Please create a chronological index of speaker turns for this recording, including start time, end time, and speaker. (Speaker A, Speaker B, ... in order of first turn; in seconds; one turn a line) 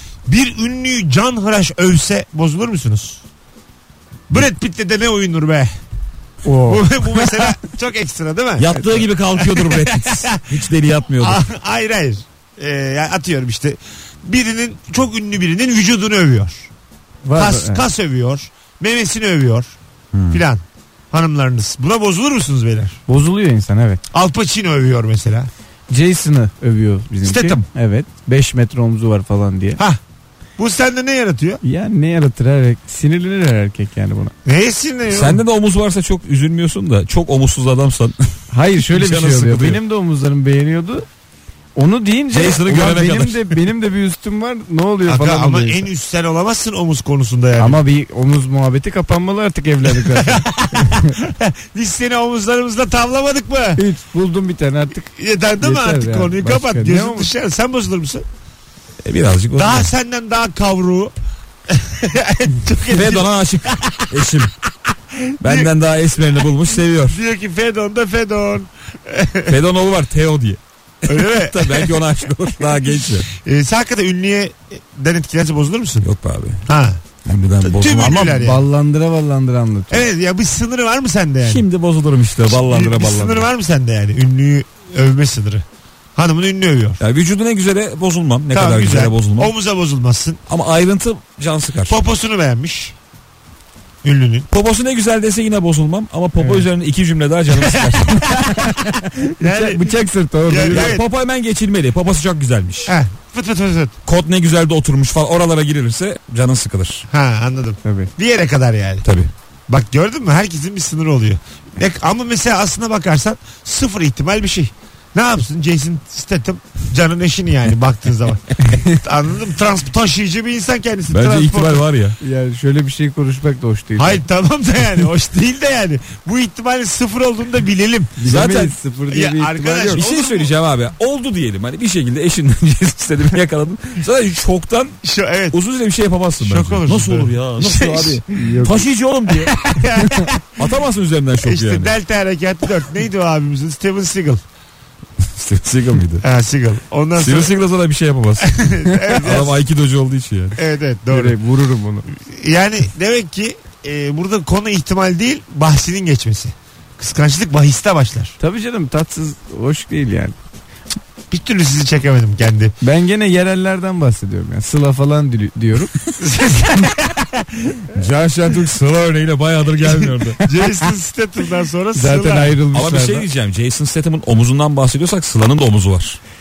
Speaker A: 0.3-3.2
Speaker A: 4.3-5.7
Speaker B: 6.4-7.4
Speaker A: 6.7-10.6
Speaker C: 8.6-11.4
Speaker A: 11.2-16.7
Speaker B: 17.2-17.8
Speaker A: 17.3-19.7
Speaker C: 20.1-20.4
Speaker A: 20.3-23.0
Speaker B: 23.1-24.0
Speaker A: 24.1-25.5
Speaker B: 25.9-29.8
Speaker A: 27.2-27.6
Speaker A: 30.6-31.6
Speaker B: 31.6-34.3
Speaker A: 34.5-35.4
Speaker C: 35.1-38.1
Speaker B: 38.5-41.0
Speaker C: 38.9-39.8
Speaker B: 41.8-45.9
Speaker C: 42.3-43.5
Speaker A: 45.0-47.8
Speaker B: 47.6-51.1
Speaker A: 50.0-53.8
Speaker B: 53.8-55.0
Speaker A: 55.0-58.2
Speaker B: 55.6-57.3
Speaker C: 59.0-59.9
Speaker A: 59.5-61.1
Speaker A: 61.7-64.1
Speaker C: 62.9-64.5
Speaker A: 65.4-65.7
Speaker C: 65.4-67.2
Speaker A: 67.1-69.6
Speaker C: 69.5-73.3
Speaker A: 71.1-72.0
Speaker A: 73.3-76.1
Speaker C: 76.0-76.6
Speaker A: 76.7-77.0
Speaker C: 77.2-78.4
Speaker A: 77.6-78.6
Speaker B: 78.3-80.0
Speaker A: 79.9-81.6
Speaker C: 81.4-83.5
Speaker A: 82.5-85.6
Speaker A: 86.2-87.0
Speaker C: 87.0-89.5
Speaker A: 88.5-90.4
Speaker C: 90.5-92.0
Speaker A: 91.9-92.9
Speaker A: 94.0-94.5
Speaker C: 94.5-98.4
Speaker A: 97.6-98.0
Speaker B: 98.3-101.0
Speaker A: 99.4-99.9
Speaker A: 100.5-101.0
Speaker C: 100.7-102.9
Speaker A: 102.8-104.0
Speaker C: 104.0-107.0
Speaker A: 107.1-109.0
Speaker B: 107.8-108.1
Speaker C: 109.0-109.3
Speaker A: 109.7-121.9
Speaker B: 118.7-119.0
Speaker C: 121.1-122.1
Speaker B: 122.2-124.2
Speaker A: 124.0-128.2
Speaker B: 128.2-130.1
Speaker C: 128.2-128.8
Speaker A: 129.1-130.5
Speaker C: 129.9-135.0
Speaker A: 135.0-135.6
Speaker C: 135.5-139.6
Speaker A: 136.4-138.2
Speaker B: 138.3-138.9
Speaker A: 139.5-140.6
Speaker C: 140.6-141.9
Speaker A: 141.4-144.4
Speaker C: 145.3-146.2
Speaker A: 146.2-147.5
Speaker C: 147.2-148.5
Speaker A: 148.4-149.6
Speaker C: 149.1-150.6
Speaker A: 150.6-151.3
Speaker B: 151.1-152.1
Speaker A: 152.1-158.3
Speaker B: 158.4-160.3
Speaker A: 161.3-162.7
Speaker B: 162.8-165.9
Speaker A: 166.2-167.8
Speaker C: 167.9-170.4
Speaker A: 170.1-172.6
Speaker B: 171.9-173.3
Speaker C: 172.7-176.2